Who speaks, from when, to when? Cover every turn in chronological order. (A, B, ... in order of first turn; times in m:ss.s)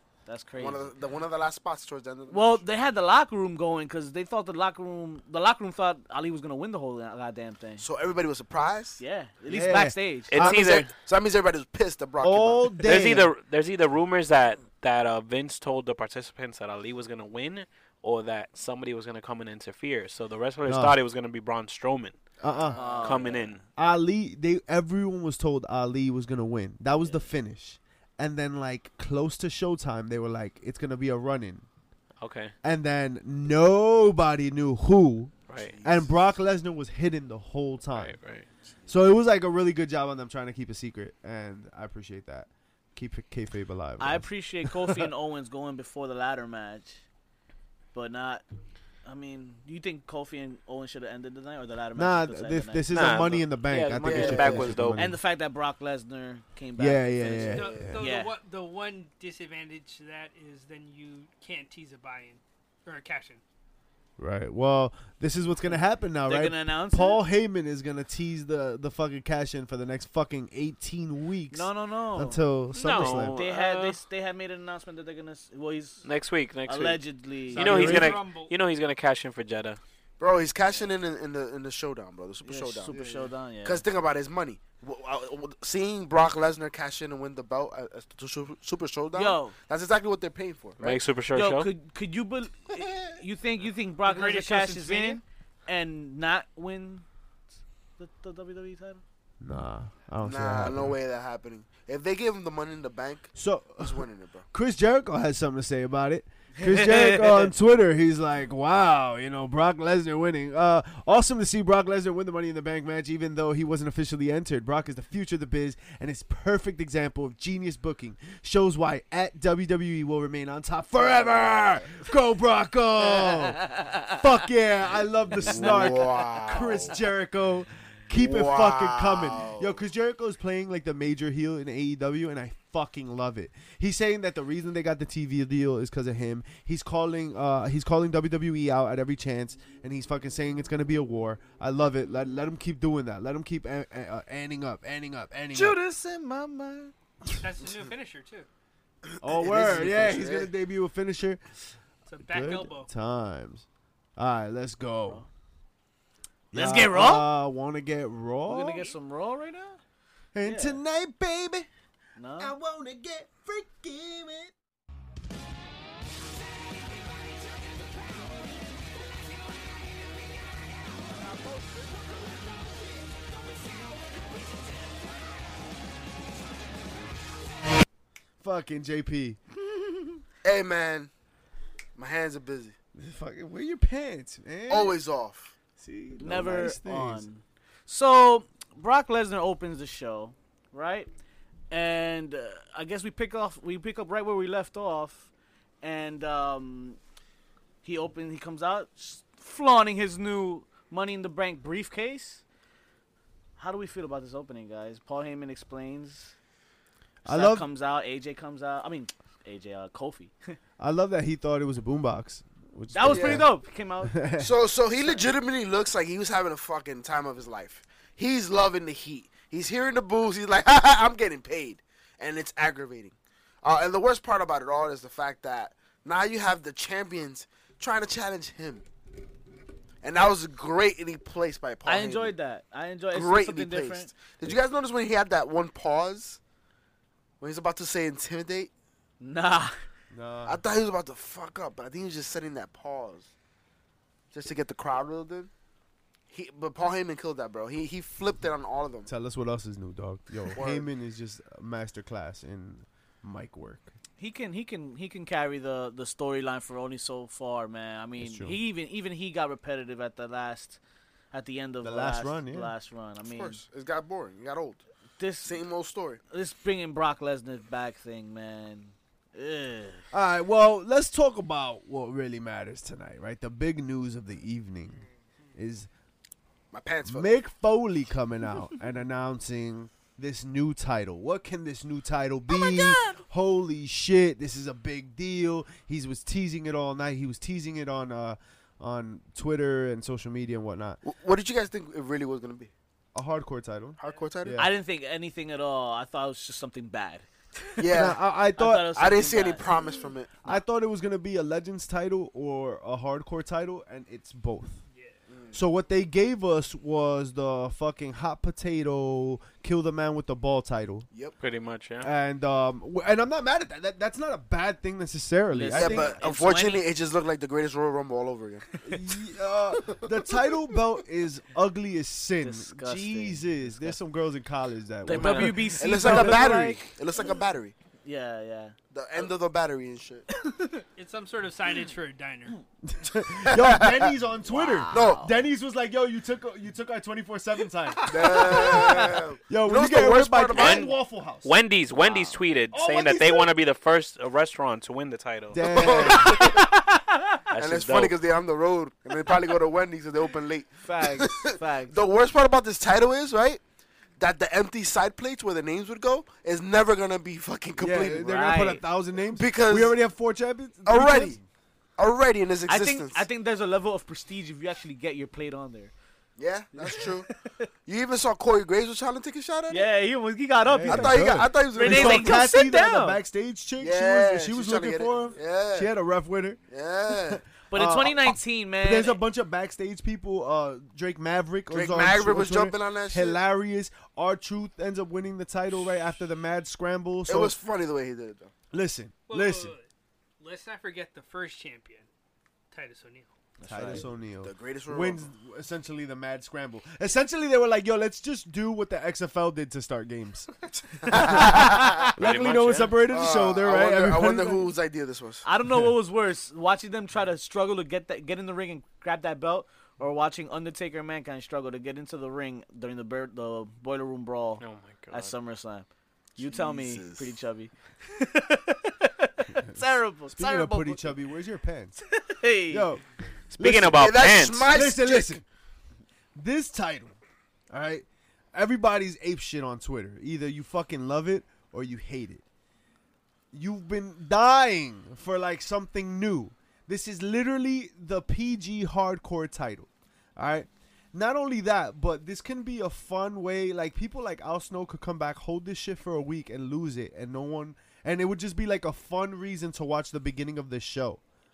0:00.3-0:00.9 A
0:00.6-0:02.6 B
0:02.3-0:07.8 A
0:07.8-0:09.0 B
0:09.0-0:10.3 A
0:09.5-0:10.7 C
0:10.3-0:10.9 D
0:10.4-0:13.1 B
0:12.2-0:13.3 C
0:12.8-0:22.2 D
0:20.7-0:21.0 C
0:22.4-0:22.9 C
0:22.5-0:23.3 B
0:22.8-0:23.5 A
0:23.0-0:23.6 D
0:23.8-0:31.7 C
0:32.2-0:32.5 D
0:32.6-0:38.2 C
0:35.5-0:35.7 D
0:35.6-0:36.2 B
0:38.0-0:38.5 D
0:38.9-0:44.3 C
0:44.0-0:47.0 A
0:47.9-0:48.4 A
0:49.0-0:53.4 A
0:52.0-0:55.2 C
0:52.9-0:55.1 D
0:54.0-0:54.8 B
0:55.0-0:58.4 A
0:56.8-0:58.0 C
0:57.5-1:03.4 E
0:57.6-0:57.9 B
1:04.2-1:13.4 C
1:06.2-1:07.2 A
1:11.5-1:12.4 A
1:12.7-1:14.0 D
1:13.0-1:16.1 A
1:16.0-1:19.8 D
1:16.7-1:18.1 A
1:17.6-1:18.5 E
1:17.6-1:18.2 C
1:20.2-1:31.0 B
1:22.4-1:23.8 A
1:29.1-1:29.5 A
1:30.8-1:31.7 D
1:31.3-1:37.1 A
1:32.8-1:33.0 B
1:34.0-1:35.2 E
1:38.0-1:39.0 A
1:39.4-1:41.0 C
1:40.2-1:44.4 B
1:43.4-2:25.8 C
1:46.6-1:47.5 A
2:01.4-2:01.6 B
2:03.6-2:04.0 A
2:05.4-2:07.0 B
2:05.5-2:06.5 A
2:08.2-2:09.8 B
2:25.5-2:26.9 A
2:27.3-2:28.5 E
2:29.1-2:30.5 B
2:29.2-2:31.4 C
2:32.1-2:32.9 E
2:32.2-2:33.7 C
2:34.2-2:35.3 C
2:36.5-2:38.9 C
2:36.5-2:37.3 A
2:38.5-2:39.8 A
2:40.3-2:41.7 C
2:40.4-2:40.8 A
2:42.2-2:42.5 A
2:42.4-2:44.5 C
2:58.4-2:59.4 C
3:00.4-3:01.1 B
3:02.0-3:02.8 B
3:03.0-3:05.0 C
3:04.7-3:05.6 B
3:05.8-3:07.2 C
3:06.2-3:11.1 A
3:11.7-3:15.3 A
3:15.8-3:17.0 A
3:17.8-3:22.4 A
3:23.6-3:26.4 A
3:27.2-3:27.7 C
3:27.2-3:30.6 A
3:30.8-3:34.6 C
3:32.9-3:34.2 A
3:33.1-3:33.4 B
3:34.4-3:48.8 B
3:50.0-3:52.4 B
3:51.8-3:54.2 A
3:53.1-3:56.4 B
3:57.4-3:58.7 B
3:59.2-3:59.7 A
4:00.1-4:00.6 C
4:00.4-4:03.3 B
4:04.3-4:05.5 B
4:06.3-4:09.1 B
4:09.1-4:13.9 C
4:10.5-4:10.9 B
4:14.2-4:20.8 A
4:18.2-4:18.6 C
4:21.3-4:23.6 A
4:21.8-4:22.7 C
4:23.3-4:24.8 B
4:25.2-4:25.6 A
4:25.4-4:26.2 B
4:26.3-4:30.0 A
4:30.1-4:35.0 C
4:35.6-4:35.9 C
4:36.7-4:37.3 B
4:37.1-4:51.0 C
4:42.5-4:43.2 A
4:51.0-4:52.7 B
4:53.1-4:54.7 C
4:54.0-4:54.7 B
4:54.6-4:59.7 A
4:57.8-4:58.2 B
4:57.9-4:59.1 C
4:58.8-5:00.5 B
5:00.4-5:04.8 C
5:05.3-5:05.6 B
5:05.5-5:11.1 C
5:11.1-5:11.4 B
5:11.4-5:12.1 D
5:12.0-5:16.2 C
5:15.5-5:16.8 A
5:15.7-5:18.7 B
5:18.8-5:26.7 C
5:22.4-5:24.0 A
5:25.0-5:26.9 A
5:25.1-5:25.6 D
5:25.8-5:27.8 B
5:28.0-5:28.8 A
5:28.9-5:30.3 B
5:30.3-5:30.8 A
5:31.0-5:32.6 E
5:32.8-5:41.5 C
5:33.5-5:33.8 B
5:34.4-5:35.4 A
5:34.9-5:35.3 B
5:38.0-5:39.2 A
5:38.1-5:40.9 B
5:40.5-5:40.9 D
5:41.4-5:46.1 D
5:42.0-5:42.4 A
5:42.7-5:43.5 C
5:45.5-5:46.5 C
5:45.6-5:46.7 B
5:45.9-5:47.4 A
5:47.5-5:48.2 D
5:47.6-5:53.6 B
5:50.8-5:52.0 A
5:54.2-5:58.4 B
5:57.8-6:01.4 C
5:58.2-5:58.8 A
5:59.3-6:00.0 B
6:00.9-6:01.4 B
6:02.0-6:03.2 B
6:02.7-6:05.9 A
6:06.4-6:07.3 B
6:06.8-6:07.6 A
6:07.9-6:09.8 B
6:09.7-6:13.2 A
6:10.6-6:27.6 C
6:10.9-6:12.4 B
6:13.8-6:15.9 B
6:16.7-6:17.4 B
6:17.7-6:19.2 A
6:21.7-6:23.4 B
6:27.3-6:28.5 B
6:28.7-6:29.7 C
6:29.3-6:29.9 E
6:30.4-6:32.1 E
6:32.7-6:33.3 E
6:33.6-6:34.1 A
6:33.6-6:40.5 C
6:34.4-6:35.3 B
6:41.0-6:42.0 B
6:41.0-6:44.6 C
6:41.4-6:43.0 D
6:43.1-6:45.5 B
6:45.4-7:01.1 A
6:54.6-6:55.3 D
6:56.4-6:57.3 B
6:59.6-7:02.0 C
7:02.1-7:02.9 A
7:02.7-7:05.4 C
7:03.5-7:04.7 D
7:03.9-7:05.4 B
7:06.4-7:07.2 C
7:07.7-7:12.4 C
7:13.5-7:31.2 C